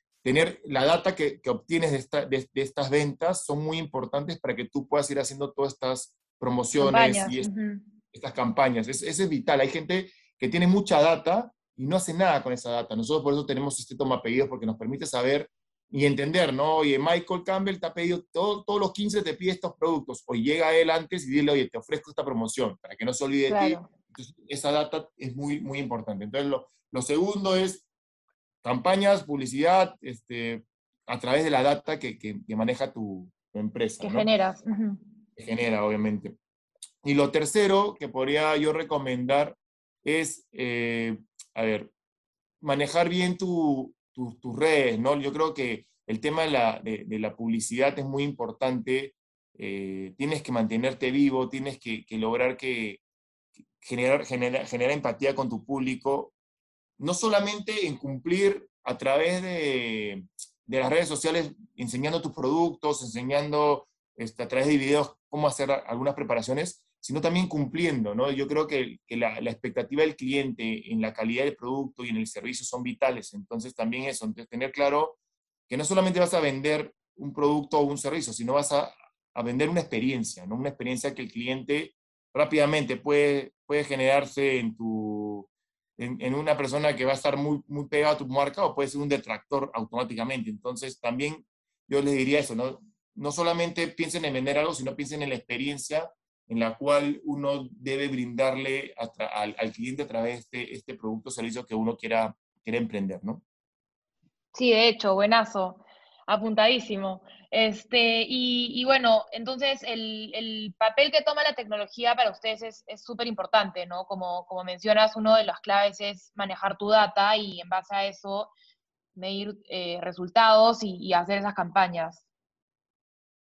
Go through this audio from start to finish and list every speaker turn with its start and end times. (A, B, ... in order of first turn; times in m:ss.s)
0:00.2-0:07.5 A
0:06.8-0:07.8 B
0:08.1-0:27.8 A
0:23.5-0:23.9 B
0:28.6-0:34.3 A
0:34.0-0:35.0 B
0:35.4-0:36.4 A
0:37.0-0:41.9 A
0:42.6-0:53.0 A
0:53.8-0:56.3 A
0:57.0-1:15.2 A
1:15.7-1:43.4 A
1:44.5-1:58.5 B
1:59.1-2:02.2 B